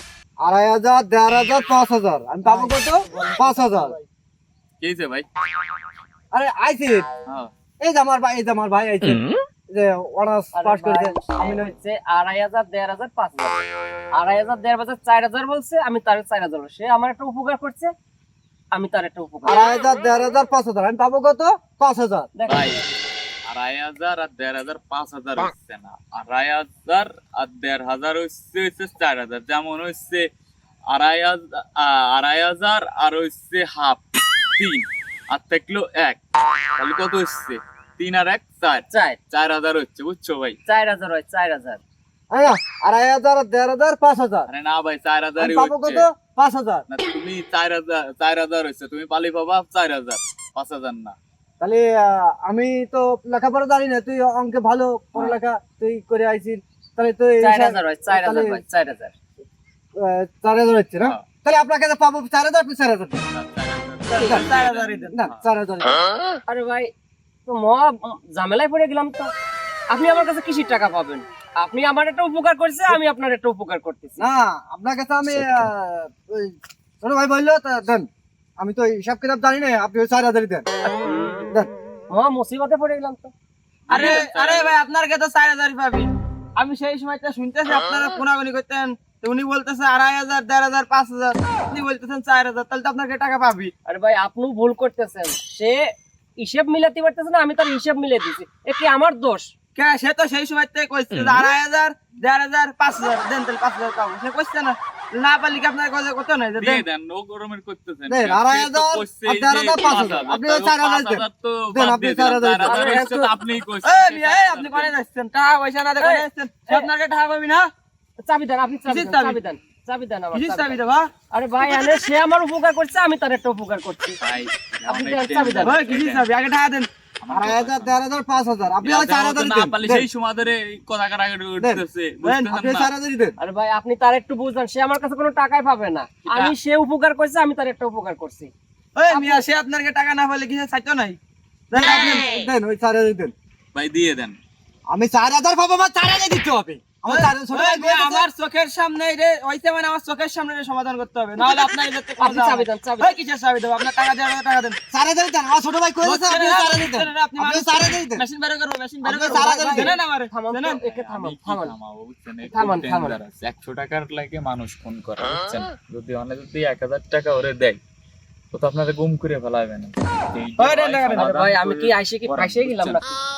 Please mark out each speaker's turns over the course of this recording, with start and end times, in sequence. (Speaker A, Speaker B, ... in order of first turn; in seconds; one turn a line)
Speaker A: 0.4-4.0
Speaker B: 2.5-4.0
Speaker C: 4.8-5.3
Speaker A: 6.3-7.1
Speaker C: 7.3-7.5
Speaker A: 7.8-11.8
Speaker B: 10.5-13.6
Speaker B: 14.1-17.9
Speaker B: 18.7-19.6
Speaker A: 19.4-22.3
Speaker B: 22.4-22.7
Speaker C: 22.5-22.9
Speaker C: 23.5-30.3
Speaker C: 30.9-34.0
Speaker C: 34.6-36.2
Speaker C: 36.8-40.6
Speaker B: 38.9-39.2
Speaker B: 40.7-41.8
Speaker A: 42.3-44.5
Speaker C: 44.5-46.1
Speaker A: 45.4-46.9
Speaker C: 46.9-51.2
Speaker A: 51.6-58.6
Speaker B: 57.4-59.1
Speaker A: 60.0-63.2
Speaker C: 63.3-65.4
Speaker D: 64.1-65.2
Speaker A: 64.2-64.5
Speaker A: 65.1-66.0
Speaker B: 66.5-66.9
Speaker B: 67.5-69.3
Speaker B: 69.9-74.2
Speaker A: 74.2-80.7
Speaker C: 75.3-75.7
Speaker B: 80.8-81.5
Speaker B: 82.1-83.3
Speaker C: 83.9-84.8
Speaker D: 83.9-93.7
Speaker B: 83.9-84.2
Speaker B: 93.9-99.5
Speaker D: 99.8-106.9
Speaker C: 106.6-115.0
Speaker A: 108.1-112.9
Speaker B: 112.7-113.3
Speaker D: 113.8-117.7
Speaker B: 116.0-116.9
Speaker B: 118.2-120.8
Speaker D: 118.9-119.4
Speaker D: 120.3-121.1
Speaker B: 121.3-124.2
Speaker C: 124.2-126.3
Speaker B: 124.9-125.8
Speaker D: 125.7-126.9
Speaker C: 127.2-128.0
Speaker A: 127.3-130.1
Speaker C: 128.8-132.9
Speaker D: 132.2-132.5
Speaker A: 132.5-133.4
Speaker B: 133.4-138.5
Speaker C: 136.3-136.5
Speaker D: 139.0-141.2
Speaker B: 139.1-139.5
Speaker D: 141.7-142.3
Speaker A: 141.7-143.3
Speaker C: 143.7-144.4
Speaker A: 144.9-148.3
Speaker D: 147.1-154.8
Speaker B: 151.4-153.2
Speaker A: 154.9-158.2
Speaker D: 156.0-160.8
Speaker A: 159.0-160.0
Speaker B: 159.5-161.7
Speaker C: 160.7-167.8
Speaker B: 162.4-163.2
Speaker C: 168.5-173.0
Speaker D: 170.6-171.5
Speaker B: 171.1-173.2